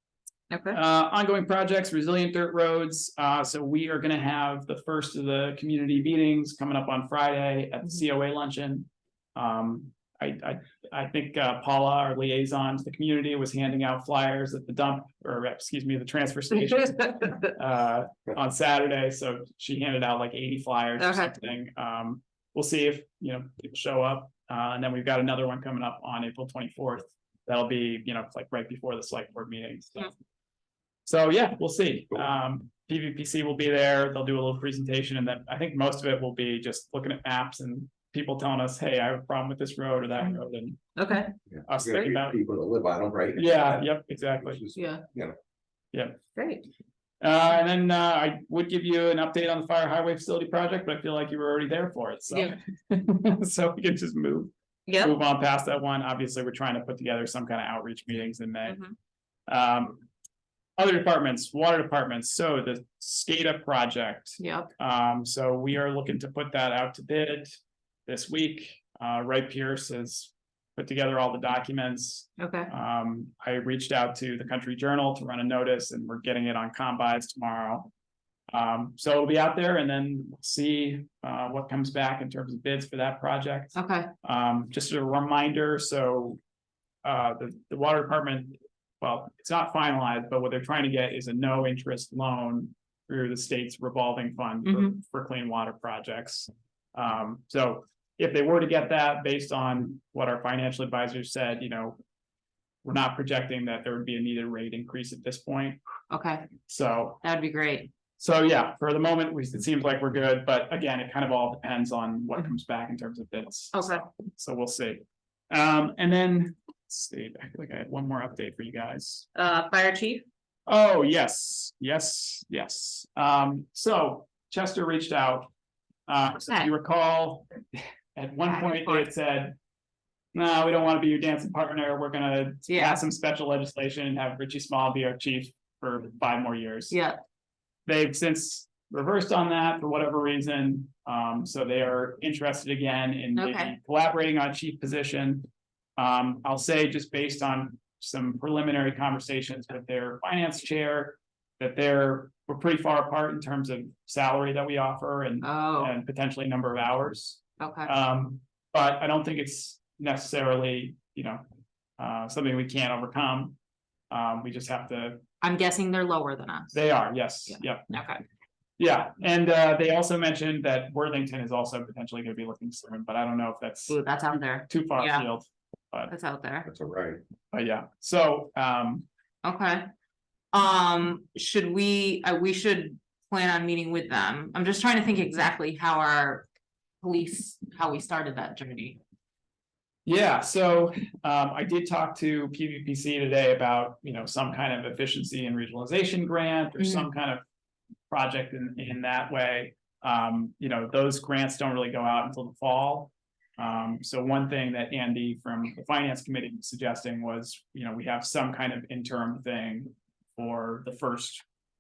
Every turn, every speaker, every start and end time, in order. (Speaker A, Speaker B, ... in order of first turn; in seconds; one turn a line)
Speaker A: 0.5-0.8
Speaker B: 0.7-30.1
Speaker A: 17.2-17.5
Speaker A: 21.0-21.3
Speaker B: 31.1-40.9
Speaker A: 41.0-41.4
Speaker C: 41.5-43.9
Speaker B: 41.7-42.4
Speaker B: 43.4-44.6
Speaker C: 44.4-45.4
Speaker A: 44.8-45.0
Speaker B: 45.9-46.2
Speaker A: 46.4-46.7
Speaker B: 47.2-58.8
Speaker A: 52.3-52.6
Speaker A: 54.9-55.1
Speaker A: 58.6-58.9
Speaker B: 59.5-60.0
Speaker B: 60.8-77.9
Speaker A: 64.4-64.7
Speaker A: 72.4-72.7
Speaker B: 78.5-86.4
Speaker A: 83.7-84.1
Speaker B: 87.0-102.0
Speaker A: 94.6-95.0
Speaker B: 102.8-105.8
Speaker A: 106.1-106.5
Speaker B: 106.6-107.2
Speaker A: 107.2-107.9
Speaker B: 108.2-119.3
Speaker A: 113.7-114.0
Speaker A: 119.3-120.2
Speaker B: 120.7-125.5
Speaker B: 126.1-129.6
Speaker A: 128.4-129.1
Speaker B: 130.3-137.0
Speaker A: 132.7-133.0
Speaker A: 136.9-137.2
Speaker B: 137.9-161.4
Speaker A: 143.3-143.7
Speaker A: 155.4-155.9
Speaker A: 157.6-157.9
Speaker B: 162.0-163.6
Speaker B: 164.1-165.2
Speaker A: 165.4-166.8
Speaker B: 166.7-168.0
Speaker A: 167.4-168.2
Speaker B: 168.8-176.1
Speaker A: 173.9-175.2
Speaker A: 176.1-176.7
Speaker C: 176.6-177.2
Speaker B: 177.5-179.0
Speaker A: 179.4-179.9
Speaker A: 180.5-186.4
Speaker A: 187.0-189.0
Speaker B: 190.1-197.4
Speaker A: 196.8-197.1
Speaker B: 198.1-211.4